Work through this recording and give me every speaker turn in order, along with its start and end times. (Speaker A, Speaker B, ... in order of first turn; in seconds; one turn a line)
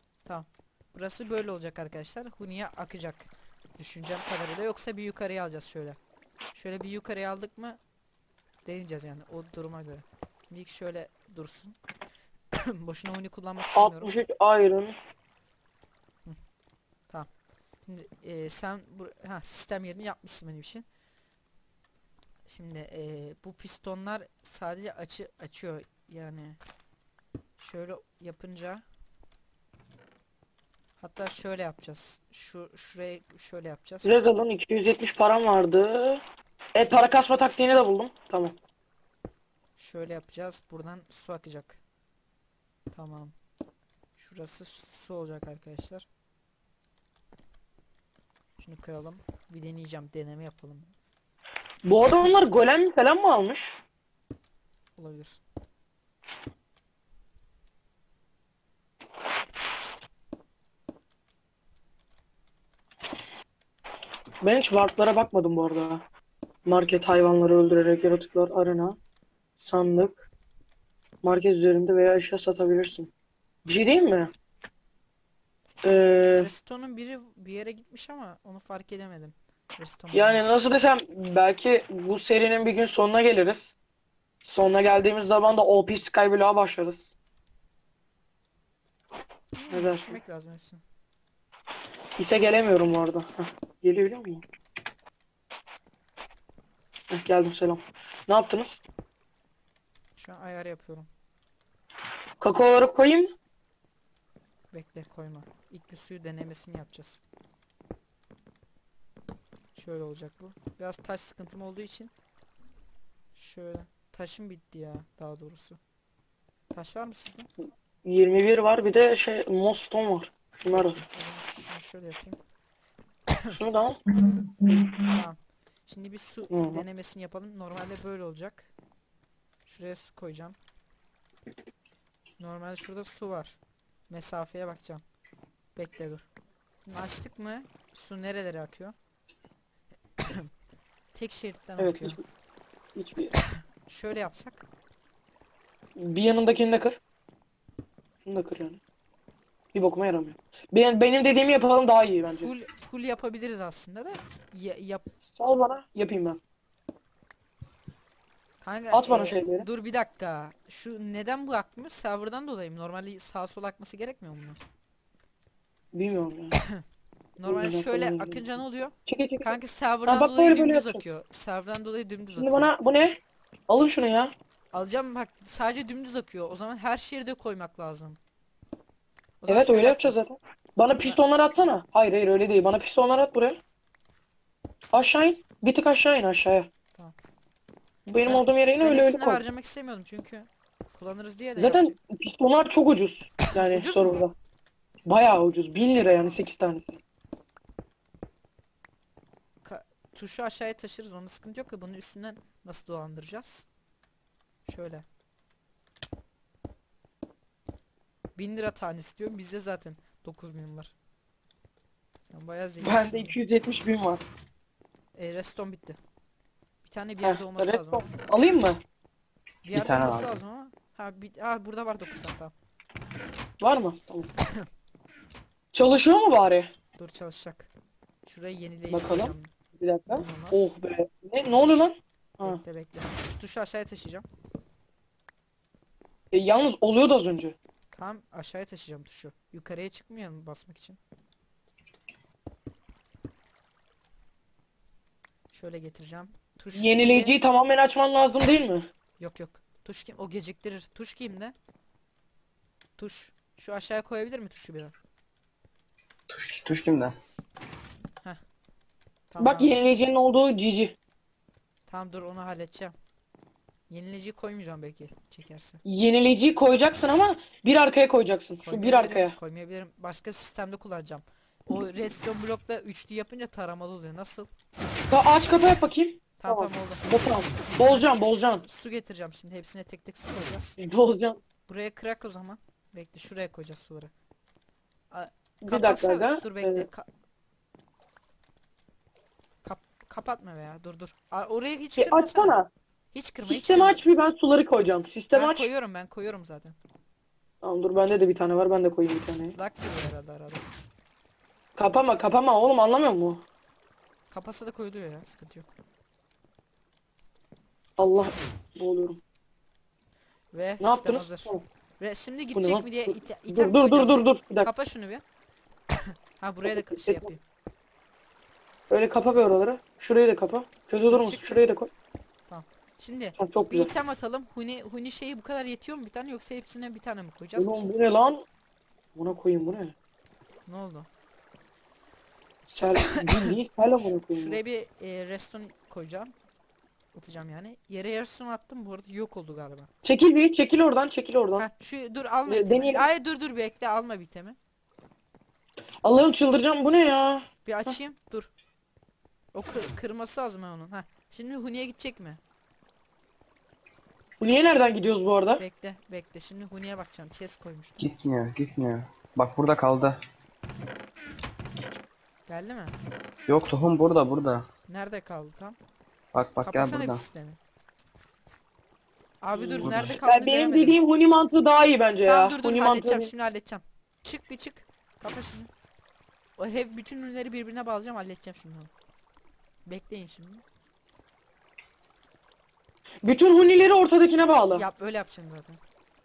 Speaker A: 0.2-6.0
Speaker A: 6.5-7.8
Speaker A: 8.6-11.8
Speaker A: 12.5-14.1
Speaker B: 13.8-14.9
Speaker A: 17.8-20.9
Speaker A: 22.4-26.6
Speaker A: 27.6-28.8
Speaker A: 31.0-34.1
Speaker B: 34.0-36.2
Speaker B: 36.7-38.5
Speaker A: 39.8-41.8
Speaker A: 42.9-43.3
Speaker A: 44.2-46.0
Speaker A: 48.6-50.9
Speaker B: 51.8-53.8
Speaker A: 55.0-55.4
Speaker B: 64.4-66.0
Speaker B: 66.7-69.0
Speaker B: 69.6-70.2
Speaker B: 71.2-73.1
Speaker B: 73.7-74.3
Speaker B: 75.8-76.5
Speaker A: 76.3-80.4
Speaker B: 80.1-83.7
Speaker B: 84.4-87.1
Speaker A: 89.5-90.8
Speaker B: 89.7-90.2
Speaker B: 92.2-94.4
Speaker B: 97.1-98.8
Speaker A: 100.2-101.1
Speaker B: 102.4-103.3
Speaker A: 104.7-107.2
Speaker A: 109.7-112.1
Speaker A: 113.3-115.8
Speaker A: 116.7-117.5
Speaker B: 118.0-121.0
Speaker A: 120.7-122.4
Speaker B: 123.5-124.0
Speaker A: 125.0-128.7
Speaker B: 126.5-126.8
Speaker A: 129.7-130.6
Speaker A: 132.4-133.6
Speaker A: 134.1-135.0
Speaker A: 135.8-136.3
Speaker A: 136.8-138.9
Speaker A: 141.1-142.2
Speaker B: 141.8-142.2
Speaker B: 142.9-143.3
Speaker A: 143.5-144.6
Speaker B: 145.9-147.0
Speaker B: 148.2-148.8
Speaker B: 149.7-152.5
Speaker A: 152.3-155.0
Speaker B: 155.3-156.4
Speaker A: 158.6-164.6
Speaker B: 158.9-159.7
Speaker B: 165.9-166.5
Speaker A: 167.4-172.7
Speaker B: 167.4-168.4
Speaker B: 169.1-169.5
Speaker B: 170.1-171.0
Speaker B: 172.4-174.3
Speaker A: 174.7-178.2
Speaker A: 179.4-180.2
Speaker B: 179.5-183.6
Speaker B: 184.9-186.7
Speaker B: 188.1-189.4
Speaker A: 188.2-191.9
Speaker B: 191.6-194.3
Speaker A: 193.5-194.2
Speaker B: 195.1-197.0
Speaker A: 199.6-203.7
Speaker A: 204.7-205.1
Speaker A: 208.3-210.9
Speaker A: 212.3-213.4
Speaker B: 212.8-214.2
Speaker A: 215.1-216.0
Speaker A: 216.8-218.1
Speaker B: 217.2-218.8
Speaker A: 219.7-222.5
Speaker C: 219.7-220.3
Speaker B: 223.6-224.3
Speaker A: 224.4-224.7
Speaker B: 225.7-226.7
Speaker A: 227.0-227.7
Speaker A: 228.2-229.5
Speaker B: 228.9-232.6
Speaker A: 230.1-230.8
Speaker A: 232.4-234.3
Speaker B: 236.3-237.5
Speaker A: 237.9-241.0
Speaker A: 245.5-247.3
Speaker B: 246.7-248.9
Speaker A: 249.2-251.5
Speaker A: 253.0-254.9
Speaker C: 256.3-257.1
Speaker A: 259.3-259.8
Speaker B: 259.4-260.9
Speaker A: 261.9-262.9
Speaker A: 263.9-265.8
Speaker B: 265.8-269.4
Speaker A: 268.6-274.5
Speaker B: 275.1-278.6
Speaker A: 276.4-280.8
Speaker B: 280.8-281.4
Speaker A: 281.7-284.1
Speaker A: 285.1-287.1
Speaker B: 285.6-286.9
Speaker A: 289.6-292.6
Speaker B: 292.0-292.7
Speaker A: 293.1-294.0
Speaker B: 293.4-295.7
Speaker A: 295.3-296.8
Speaker B: 297.6-299.6
Speaker A: 299.6-300.6
Speaker B: 301.8-303.4
Speaker A: 304.3-305.7
Speaker B: 308.0-309.2
Speaker A: 310.5-315.2
Speaker B: 310.8-311.6
Speaker B: 312.5-314.7
Speaker A: 315.9-317.4
Speaker B: 316.7-317.3
Speaker B: 318.9-321.9
Speaker A: 321.1-321.6
Speaker A: 322.5-327.7
Speaker B: 323.4-323.9
Speaker B: 327.6-328.4
Speaker B: 329.1-329.9
Speaker A: 330.7-331.1
Speaker B: 332.7-334.6
Speaker A: 333.1-336.3
Speaker A: 337.1-339.9
Speaker B: 340.0-341.7
Speaker A: 341.6-344.6
Speaker B: 342.4-343.0
Speaker B: 346.0-348.0
Speaker A: 347.6-348.5
Speaker A: 349.5-352.4
Speaker B: 354.4-355.6
Speaker A: 355.6-358.1
Speaker C: 358.0-360.2
Speaker A: 362.5-362.9
Speaker C: 363.5-364.7
Speaker A: 364.9-365.8
Speaker C: 366.3-367.2
Speaker A: 366.6-367.6
Speaker A: 369.4-371.0
Speaker B: 369.6-373.3
Speaker C: 369.8-370.2
Speaker A: 372.2-375.7
Speaker A: 376.6-378.9
Speaker A: 379.9-380.6
Speaker B: 383.2-384.8
Speaker A: 384.7-385.8